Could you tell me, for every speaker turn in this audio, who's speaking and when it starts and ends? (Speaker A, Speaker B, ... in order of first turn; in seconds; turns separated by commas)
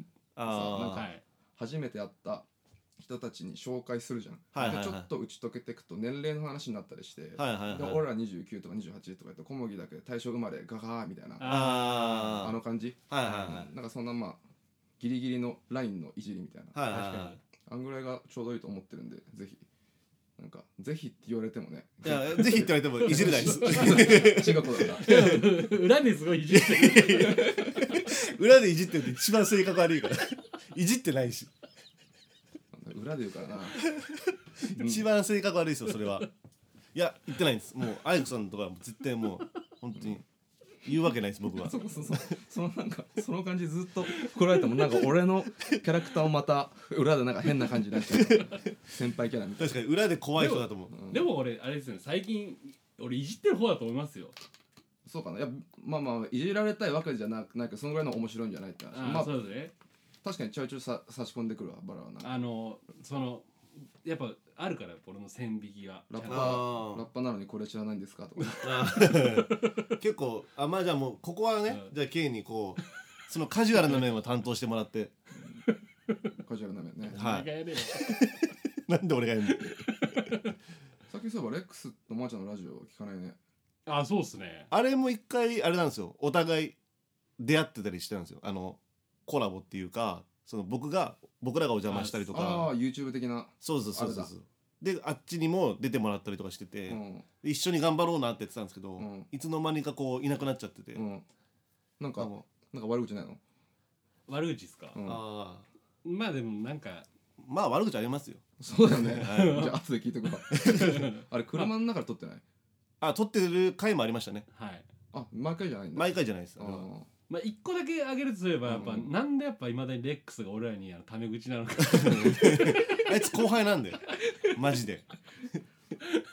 Speaker A: 0.4-1.1, Speaker B: 0.4-2.5, Speaker C: 0.9-1.2, Speaker B: 3.0-14.4, Speaker A: 4.5-5.1, Speaker A: 7.4-8.0, Speaker C: 11.4-12.5, Speaker A: 11.4-12.6, Speaker A: 13.1-13.7, Speaker B: 15.0-19.6, Speaker A: 16.7-17.4, Speaker B: 20.4-25.1, Speaker A: 22.0-25.5, Speaker C: 23.1-24.4, Speaker C: 25.0-28.1, Speaker A: 26.5-31.5, Speaker B: 32.7-33.9, Speaker A: 33.9-36.3, Speaker B: 34.7-35.1, Speaker A: 37.0-40.2, Speaker A: 40.8-41.8, Speaker B: 41.5-49.8, Speaker C: 44.2-44.9, Speaker A: 48.1-48.7, Speaker A: 49.6-50.9, Speaker C: 50.4-54.4, Speaker B: 50.9-51.3, Speaker B: 55.0-59.4, Speaker C: 58.9-59.7, Speaker B: 60.2-62.4, Speaker C: 62.2-63.5, Speaker C: 64.0-66.6, Speaker B: 66.1-69.0, Speaker A: 66.2-67.0, Speaker C: 68.5-69.8, Speaker A: 68.6-75.1, Speaker C: 73.8-74.0, Speaker B: 75.4-75.7, Speaker C: 75.7-76.3, Speaker B: 76.4-77.2, Speaker C: 77.1-78.2, Speaker A: 77.1-79.8, Speaker C: 79.5-80.5, Speaker B: 81.1-83.4, Speaker C: 83.9-84.7, Speaker A: 84.7-86.8, Speaker A: 87.4-92.7, Speaker C: 91.9-92.3, Speaker B: 92.3-94.3, Speaker A: 93.6-101.0, Speaker B: 96.9-97.3, Speaker B: 99.0-99.3, Speaker B: 101.0-101.2, Speaker B: 102.0-103.4, Speaker C: 104.3-105.0, Speaker B: 104.9-105.2, Speaker A: 105.0-105.7, Speaker C: 106.0-107.1, Speaker A: 107.4-109.6, Speaker B: 108.6-112.4, Speaker C: 109.2-111.7, Speaker A: 110.5-111.0, Speaker A: 113.0-114.5, Speaker C: 114.5-114.9, Speaker B: 115.1-117.1, Speaker A: 116.0-116.9, Speaker C: 117.3-123.2, Speaker B: 118.7-119.1, Speaker A: 121.8-125.6